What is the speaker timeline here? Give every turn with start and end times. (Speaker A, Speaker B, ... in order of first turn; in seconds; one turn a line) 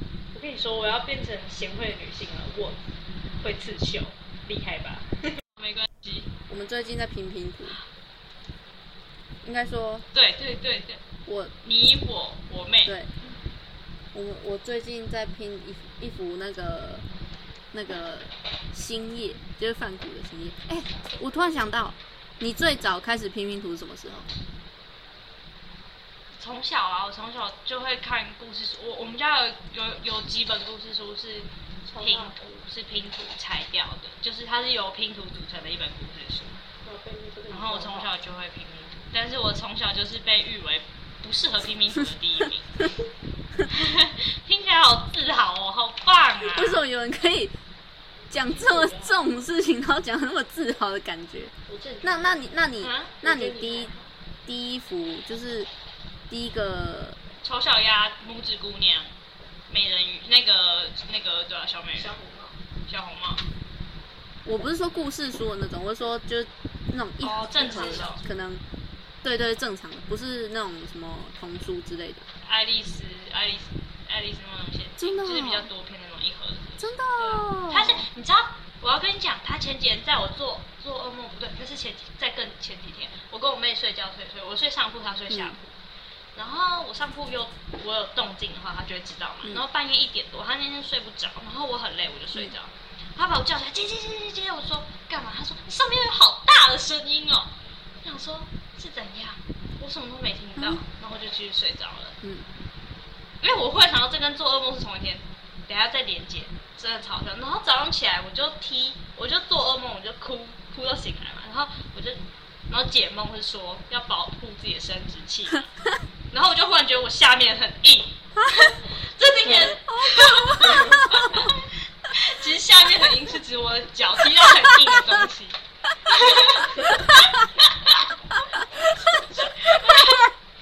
Speaker A: 0.3-2.8
Speaker A: 3.4-6.3
Speaker B: 6.5-7.8
Speaker B: 9.4-10.1
Speaker A: 10.1-11.0
Speaker B: 11.2-11.5
Speaker A: 11.6-12.9
Speaker B: 14.1-17.1
Speaker B: 17.7-24.3
Speaker A: 26.4-36.6
Speaker C: 31.9-32.5
Speaker C: 36.8-38.1
Speaker A: 37.5-42.8
Speaker A: 43.7-46.8
Speaker B: 46.4-47.5
Speaker B: 48.3-53.9
Speaker C: 48.5-49.2
Speaker C: 51.7-52.4
Speaker A: 52.8-53.1
Speaker C: 53.2-54.1
Speaker B: 54.5-55.7
Speaker B: 56.3-57.2
Speaker A: 57.4-59.1
Speaker A: 59.7-62.1
Speaker C: 62.0-62.6
Speaker A: 62.9-63.4
Speaker B: 64.4-68.6
Speaker A: 67.2-68.2
Speaker C: 67.6-68.2
Speaker B: 69.2-72.2
Speaker A: 72.4-85.7
Speaker B: 75.0-75.7
Speaker B: 76.8-78.0
Speaker B: 85.3-85.6
Speaker A: 86.3-102.2
Speaker B: 100.6-100.8
Speaker B: 102.2-102.5
Speaker A: 103.4-115.7
Speaker A: 116.3-128.1
Speaker B: 119.5-120.8
Speaker B: 128.6-130.2
Speaker A: 129.3-130.3